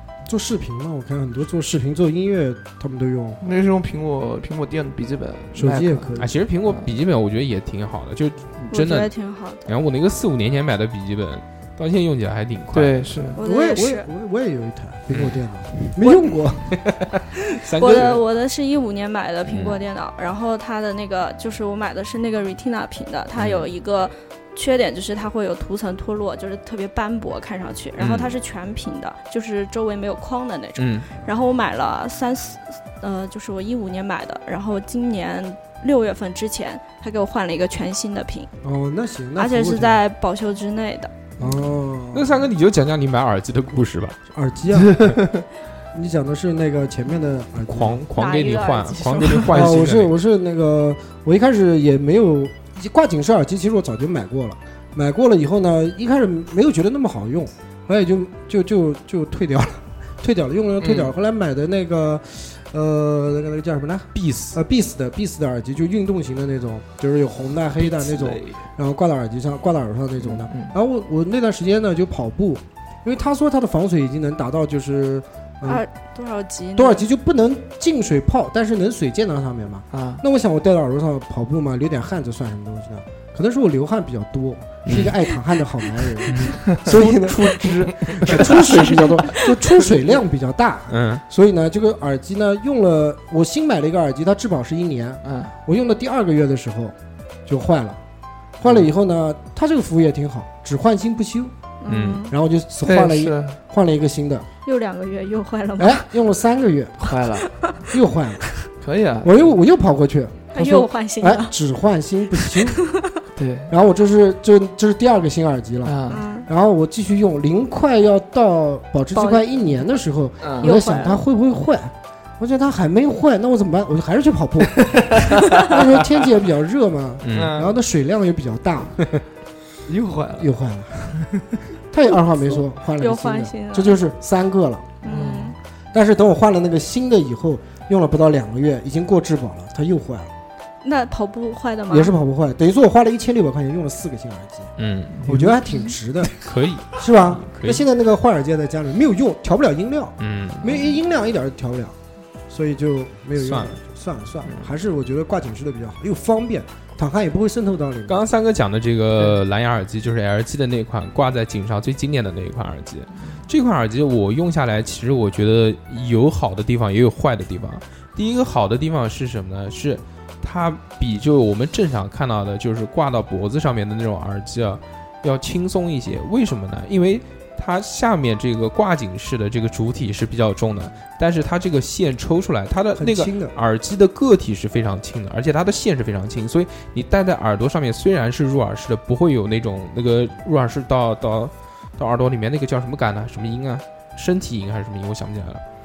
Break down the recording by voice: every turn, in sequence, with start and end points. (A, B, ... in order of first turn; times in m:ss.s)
0:00.3-0:03.4 A
0:03.4-0:06.1 B
0:05.6-0:06.4 A
0:06.2-0:09.1 C
0:08.7-0:09.7 D
0:09.6-0:13.1 C
0:12.7-0:13.4 B
0:13.4-0:14.1 D
0:13.4-0:16.8 A
0:15.1-0:15.9 C
0:16.0-0:16.4 D
0:16.8-0:18.2 C
0:17.6-0:38.5 D
0:19.4-0:19.8 C
0:23.4-0:23.7 C
0:28.0-0:28.3 C
0:30.8-0:31.1 C
0:38.6-0:40.0 A
0:39.4-0:41.1 D
0:41.4-0:42.4 A
0:42.1-0:44.2 C
0:44.3-0:45.2 A
0:44.8-0:45.4 B
0:45.9-0:48.0 A
0:47.7-0:50.2 C
0:48.1-0:49.6 D
0:49.5-1:15.8 A
1:00.8-1:01.1 B
1:04.1-1:04.6 C
1:07.8-1:08.7 B
1:10.2-1:10.8 B
1:15.6-1:17.0 D
1:16.8-1:36.9 A
1:19.9-1:20.2 B
1:24.9-1:25.2 C
1:26.2-1:29.1 C
1:27.6-1:29.0 B
1:30.9-1:31.2 C
1:35.2-1:35.5 B
1:37.4-1:38.0 A
1:38.6-1:41.5 A
1:41.8-1:42.4 D
1:41.9-1:42.3 C
1:42.3-1:44.5 A
1:42.8-1:43.6 B
1:44.6-1:46.0 D
1:45.8-1:47.0 A
1:47.0-1:47.5 B
1:47.5-1:47.8 D
1:47.9-1:48.4 A
1:48.8-1:49.5 B
1:49.2-1:52.8 A
1:50.5-1:51.5 D
1:52.4-1:53.1 D
1:53.4-1:53.7 B
1:53.7-2:09.0 A
1:55.8-1:56.2 B
1:56.1-1:56.5 D
1:59.1-1:59.4 D
2:00.4-2:00.7 B
2:00.6-2:01.2 D
2:04.8-2:05.6 B
2:07.2-2:07.6 C
2:07.3-2:07.8 B
2:09.9-2:10.5 B
2:10.4-2:11.3 A
2:11.9-2:15.0 A
2:13.0-2:14.0 D
2:15.0-2:15.6 D
2:15.0-2:15.6 B
2:15.9-2:20.3 A
2:20.8-2:22.1 D
2:21.9-2:24.7 A
2:24.8-2:25.2 C
2:25.1-2:25.6 B
2:25.3-2:26.3 A
2:26.4-2:27.8 C
2:26.9-2:32.0 A
2:30.2-2:30.8 C
2:32.5-2:38.2 A
2:33.4-2:33.7 C
2:38.1-3:15.6 C
3:03.0-3:03.5 A